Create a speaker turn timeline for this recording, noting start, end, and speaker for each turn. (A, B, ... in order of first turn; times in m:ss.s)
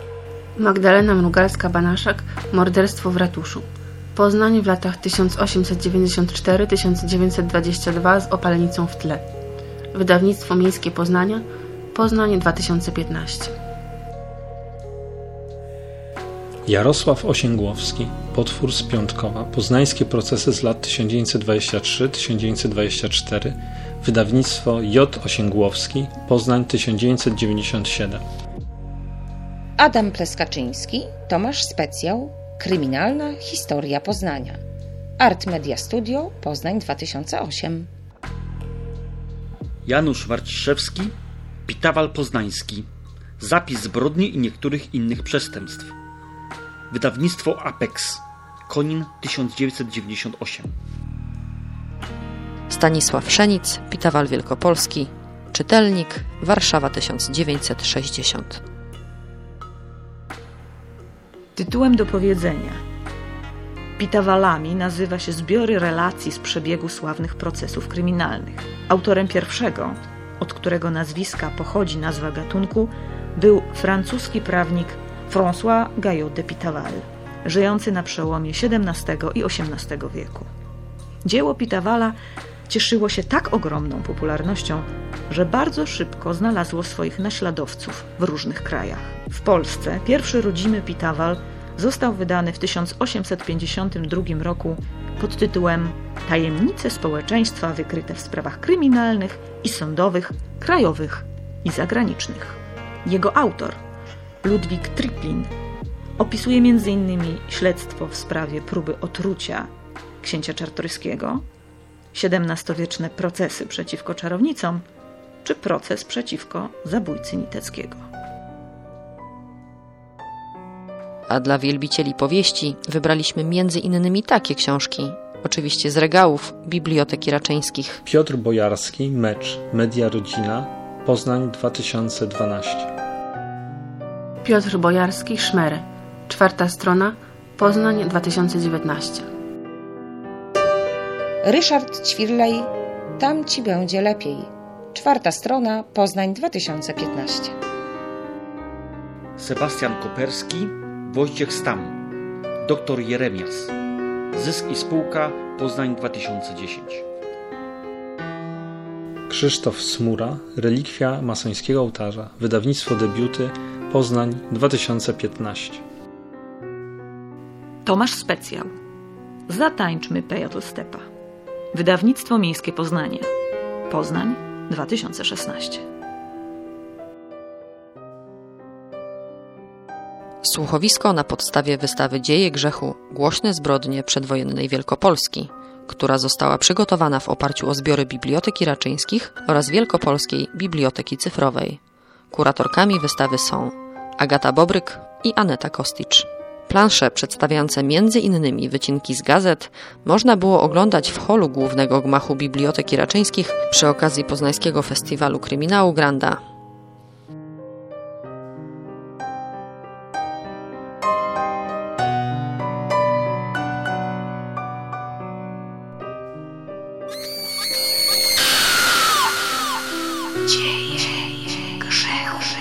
0:00.6-0:09.2 A
0:09.9-0:13.5 A
0:16.6-0:28.2 B
0:29.8-0:34.6 C
0:35.2-0:37.9 C
0:39.8-0:41.1 D
0:41.7-0:42.9 D
0:43.4-0:45.9 D
0:46.9-0:50.7 D
0:52.7-0:58.6 E
1:01.6-1:02.8 F
1:04.0-1:20.5 F
1:21.2-1:22.2 F
1:22.7-1:43.8 F
1:44.4-1:45.5 F
1:46.2-1:49.7 F
1:50.2-1:51.4 F
1:52.1-1:54.8 F
1:55.4-1:58.0 F
2:01.3-2:08.0 E
2:08.0-2:12.9 B
2:14.4-2:19.2 A
2:21.4-2:27.6 C
2:29.4-2:32.0 D
2:32.6-2:33.7 D
2:34.3-2:37.0 D
2:39.3-2:45.8 B
2:47.8-2:48.7 F
2:49.5-2:51.0 F
2:51.7-2:53.3 F
2:53.9-2:55.8 F
3:00.4-3:11.8 E
3:12.3-3:26.4 E
3:40.7-3:41.3 F